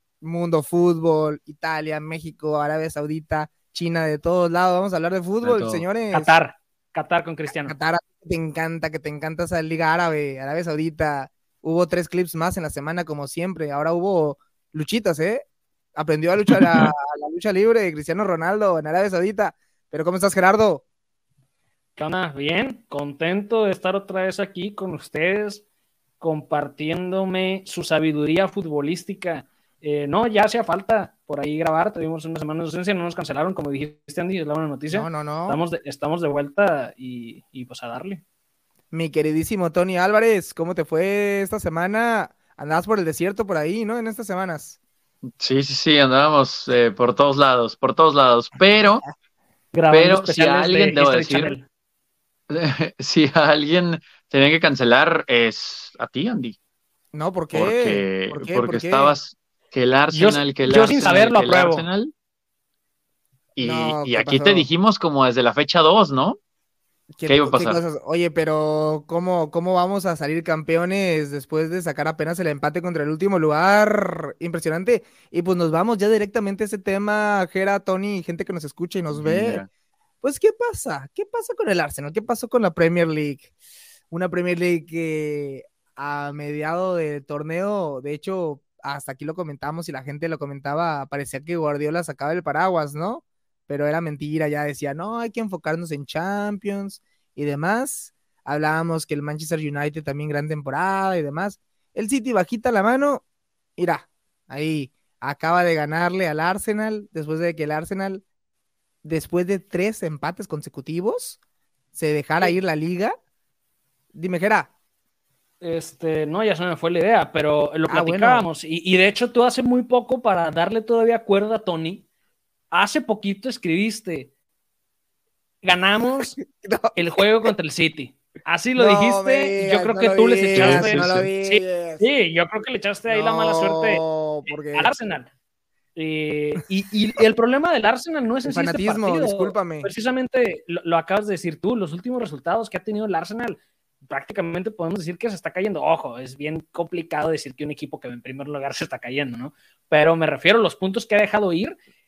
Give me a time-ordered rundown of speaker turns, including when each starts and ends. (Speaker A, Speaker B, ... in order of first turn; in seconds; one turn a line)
Speaker A: 0.2-6.3
Speaker B: 5.4-5.8
Speaker C: 6.1-7.8
Speaker A: 7.6-20.8
Speaker B: 16.5-16.9
Speaker C: 22.0-25.6
Speaker C: 26.2-38.2
Speaker A: 34.9-35.6
Speaker A: 38.9-44.8
Speaker B: 45.3-49.1
Speaker C: 49.7-51.6
Speaker B: 49.9-51.6
Speaker B: 52.5-56.6
Speaker A: 57.1-59.2
Speaker B: 57.5-62.1
Speaker C: 60.1-61.9
Speaker B: 63.6-66.4
Speaker A: 63.6-64.7
Speaker A: 67.2-79.6
Speaker B: 67.3-67.8
Speaker B: 79.1-79.7
Speaker A: 80.2-83.5
Speaker A: 84.1-103.2
Speaker A: 103.8-108.2
Speaker A: 109.0-111.4
Speaker A: 112.0-113.2
Speaker A: 114.1-114.7
Speaker C: 115.6-122.0
Speaker A: 117.9-118.5
Speaker C: 122.7-124.3
Speaker C: 125.6-126.4
Speaker A: 126.4-127.5
Speaker C: 127.0-135.3
Speaker A: 128.8-132.1
Speaker B: 130.6-131.3
Speaker A: 133.1-134.9
Speaker C: 135.9-151.8
Speaker A: 138.5-139.9